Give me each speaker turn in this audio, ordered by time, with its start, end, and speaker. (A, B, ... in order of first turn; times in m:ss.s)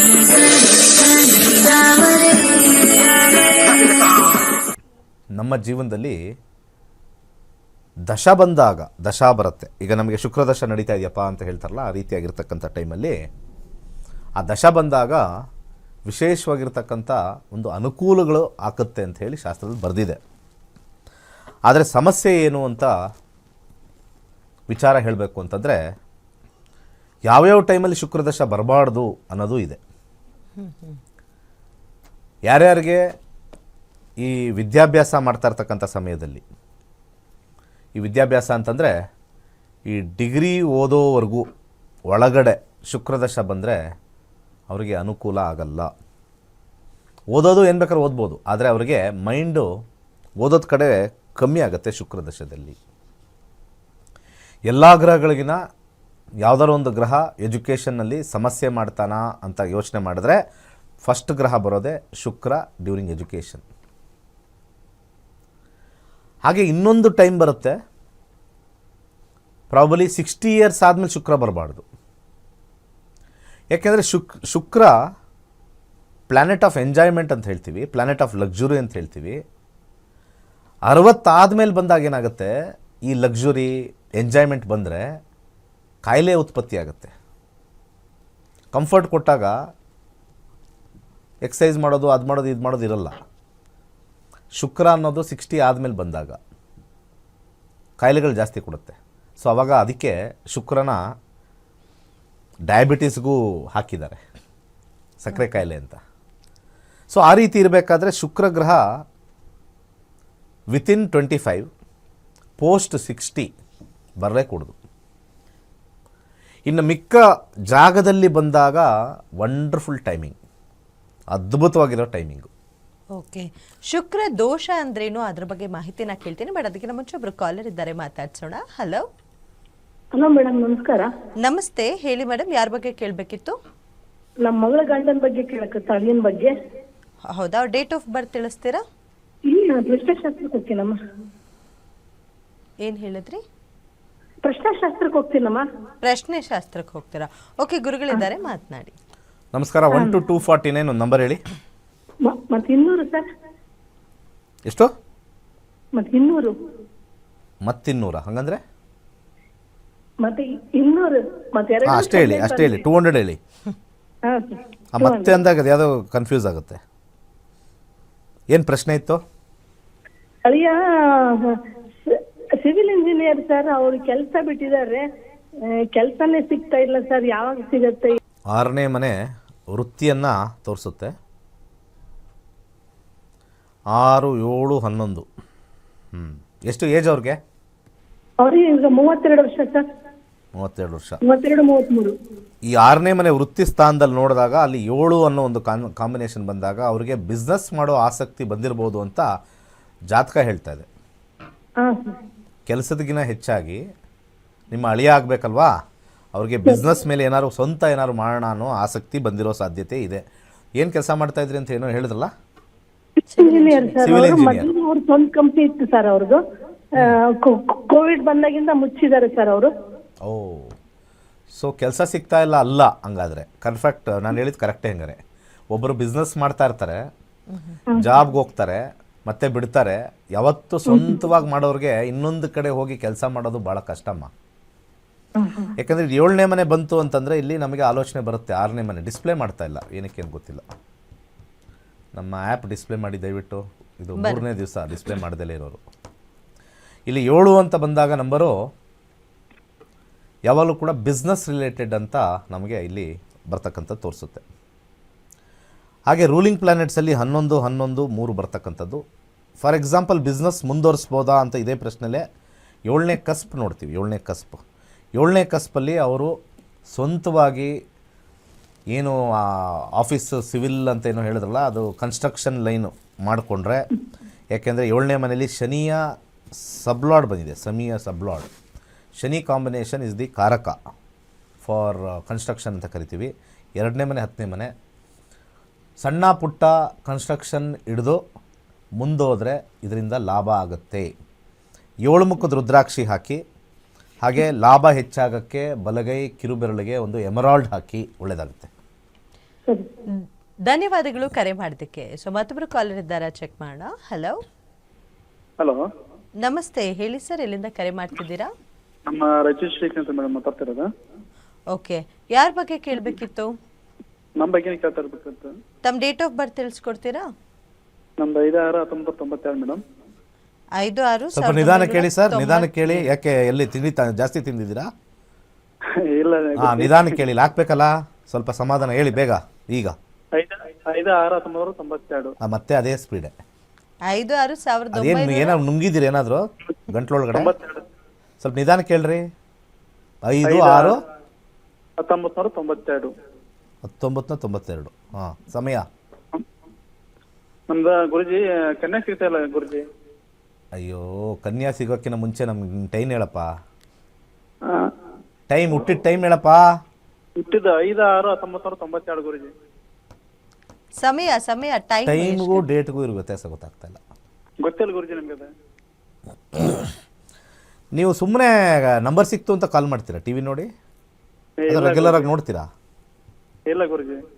0:05.4-0:06.2 A
0:08.1-0:13.1 A
0:14.4-0:15.2 A
0:16.1-0:20.2 A
0:21.7-0:22.9 A
0:24.7-0:25.8 A
0:27.3-0:29.8 A
0:30.6-0:31.0 B
0:32.5-0:33.0 A
0:34.2-0:36.4 A
0:38.0-0:38.9 A
0:39.9-0:41.4 A
0:42.1-0:43.8 A
0:44.7-0:45.9 A
0:47.3-0:49.7 A
0:50.4-0:52.8 A
0:54.7-0:55.6 A
0:56.4-1:00.4 A
1:01.0-1:03.6 A
1:06.4-1:07.8 A
1:09.7-1:11.9 A
1:13.8-1:14.9 A
1:16.3-1:19.4 A
1:20.9-1:22.5 A
1:23.1-1:25.0 A
1:26.0-1:27.1 A
1:28.7-1:29.6 A
1:31.4-1:33.2 A
1:34.6-1:36.4 A
1:38.0-1:41.0 A
1:42.7-1:44.2 A
1:45.2-1:46.0 A
1:47.1-1:48.8 A
1:50.7-1:51.7 A
1:52.6-1:53.5 A
1:54.2-1:54.8 A
1:56.7-1:58.9 A
1:59.4-2:00.4 A
2:01.3-2:02.5 A
2:03.2-2:09.0 B
2:10.1-2:11.1 C
2:11.4-2:13.6 B
2:14.4-2:16.5 C
2:17.3-2:18.8 B
2:19.5-2:21.0 C
2:22.8-2:23.4 B
2:24.4-2:25.6 C
2:26.0-2:28.9 B
2:29.5-2:31.4 A
2:32.2-2:33.2 C
2:35.9-2:36.5 C
2:37.7-2:38.6 A
2:40.2-2:42.8 C
2:41.8-2:43.4 A
2:44.2-2:45.4 C
2:44.9-2:46.8 A
2:48.5-2:49.2 A
2:50.4-2:50.8 C
2:52.1-2:55.0 C
2:55.9-2:58.2 C
2:58.5-2:59.2 A
2:59.7-3:01.1 A
3:03.9-3:05.2 A
3:06.1-3:07.4 A
3:08.4-3:09.8 C
3:10.6-3:11.2 A
3:11.2-3:12.1 C
3:12.7-3:19.3 A
3:20.1-3:20.9 A
3:21.8-3:22.2 C
3:22.7-3:23.8 A
3:24.7-3:25.7 A
3:26.3-3:30.2 A
3:30.8-3:32.3 A
3:33.3-3:34.2 B
3:33.4-3:36.4 C
3:34.0-3:34.7 A
3:37.0-3:39.7 C
3:40.3-3:40.7 A
3:41.6-3:45.2 A
3:45.7-3:47.0 A
3:47.5-3:47.8 B
3:48.0-3:54.3 A
3:55.4-3:55.7 C
3:55.8-4:00.6 A
4:02.2-4:05.8 A
4:04.2-4:04.4 B
4:07.1-4:08.5 A
4:10.5-4:14.4 A
4:16.1-4:19.0 A
4:19.6-4:22.2 A
4:22.9-4:24.6 A
4:25.2-4:26.3 A
4:26.9-4:27.7 A
4:28.9-4:33.8 A
4:34.5-4:36.0 A
4:36.6-4:38.5 A
4:39.2-4:40.8 A
4:41.6-4:44.7 A
4:46.0-4:48.2 A
4:49.0-4:51.1 A
4:52.1-4:53.4 A
4:54.2-4:58.7 A
5:00.7-5:04.4 B
5:06.4-5:08.5 B
5:09.1-5:10.8 D
5:11.7-5:13.5 B
5:14.4-5:15.5 D
5:15.8-5:17.3 B
5:18.2-5:19.8 D
5:20.8-5:23.1 B
5:21.3-5:24.9 A
5:26.2-5:27.2 D
5:26.6-5:30.0 A
5:30.4-5:32.3 D
5:32.4-5:33.3 A
5:34.1-5:35.6 B
5:34.9-5:37.5 A
5:37.4-5:37.8 D
5:38.4-5:39.2 A
5:40.3-5:41.0 A
5:40.4-5:40.9 D
5:42.0-5:43.1 D
5:43.9-5:45.8 A
5:47.7-5:49.8 D
5:50.8-5:53.5 A
5:55.5-5:56.6 A
5:57.4-5:59.5 D
6:01.0-6:02.6 B
6:02.1-6:04.0 A
6:04.6-6:05.5 D
6:07.9-6:10.7 A
6:11.6-6:12.3 D
6:11.7-6:12.7 A
6:13.7-6:14.2 D